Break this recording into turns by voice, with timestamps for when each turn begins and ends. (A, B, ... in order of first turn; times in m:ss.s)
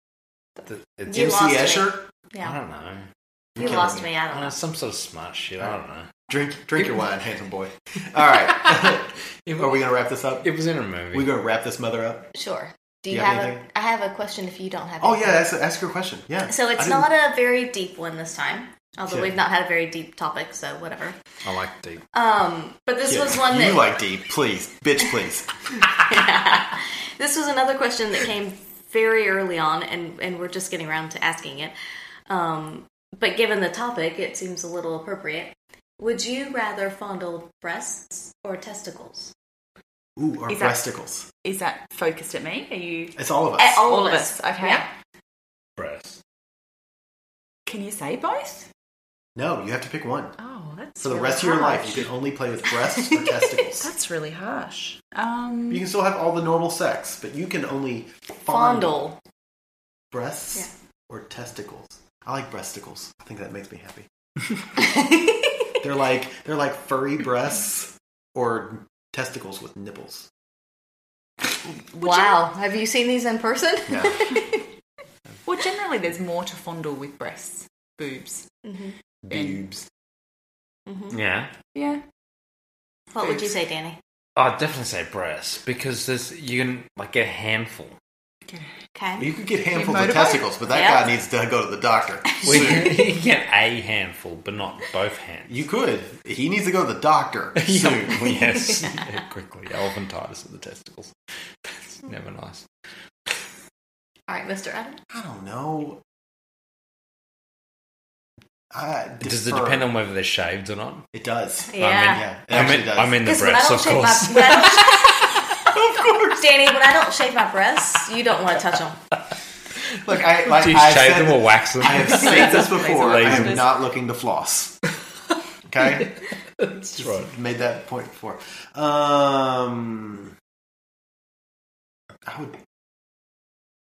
0:00.6-0:01.4 A
0:01.1-0:02.6 B
0:01.1-0:02.0 C
0:02.4-0:06.2 A
0:03.6-0:04.6 B
0:03.6-0:04.1 C
0:06.3-0:10.5 C
0:06.8-0:07.0 A
0:08.3-0:09.0 A
0:10.4-0:11.3 A
0:11.1-0:12.3 C
0:12.4-0:15.5 B
0:13.1-0:13.6 C
0:15.0-0:17.1 C
0:16.5-0:21.2 B
0:19.1-0:19.4 C
0:21.4-0:22.0 A
0:22.1-0:24.0 B
0:23.1-0:25.5 C
0:26.1-0:31.7 B
0:32.3-0:39.3 B
0:40.2-0:41.3 C
0:40.5-0:40.9 D
0:41.4-0:43.2 D
0:43.2-0:43.9 C
0:43.6-0:44.8 B
0:43.8-0:44.9 D
0:45.8-0:46.2 A
0:47.7-0:48.7 D
0:49.4-0:50.4 C
0:50.4-0:52.1 D
0:51.0-0:53.9 C
0:53.8-0:55.9 D
0:55.7-0:59.0 C
0:58.5-0:59.2 B
1:00.1-1:04.1 C
1:04.8-1:05.3 B
1:05.8-1:10.3 C
1:11.9-1:12.4 D
1:12.0-1:14.6 B
1:13.9-1:14.2 C
1:15.4-1:18.5 D
1:18.6-1:19.0 B
1:19.2-1:19.9 C
1:19.3-1:19.6 D
1:20.9-1:21.2 B
1:21.1-1:21.5 A
1:21.7-1:22.0 D
1:23.1-1:24.0 B
1:23.2-1:23.5 D
1:24.4-1:28.0 A
1:28.9-1:29.3 B
1:29.2-1:33.0 C
1:29.7-1:30.5 D
1:30.7-1:31.1 B
1:32.4-1:35.6 A
1:35.5-1:38.4 C
1:37.6-1:41.1 A
1:41.6-1:42.7 A
1:44.3-1:45.0 B
1:45.1-1:46.0 C
1:48.7-1:49.9 C
1:49.2-1:51.1 A
1:51.1-1:53.2 C
1:51.7-1:52.2 B
1:51.8-1:55.1 A
1:53.2-1:55.2 B
1:55.9-1:56.3 C
1:56.3-1:59.0 B
2:00.0-2:04.8 C
2:00.4-2:03.7 A
2:02.0-2:03.7 D
2:05.7-2:06.1 C
2:06.6-2:07.3 A
2:07.0-2:10.4 C
2:12.2-2:12.6 C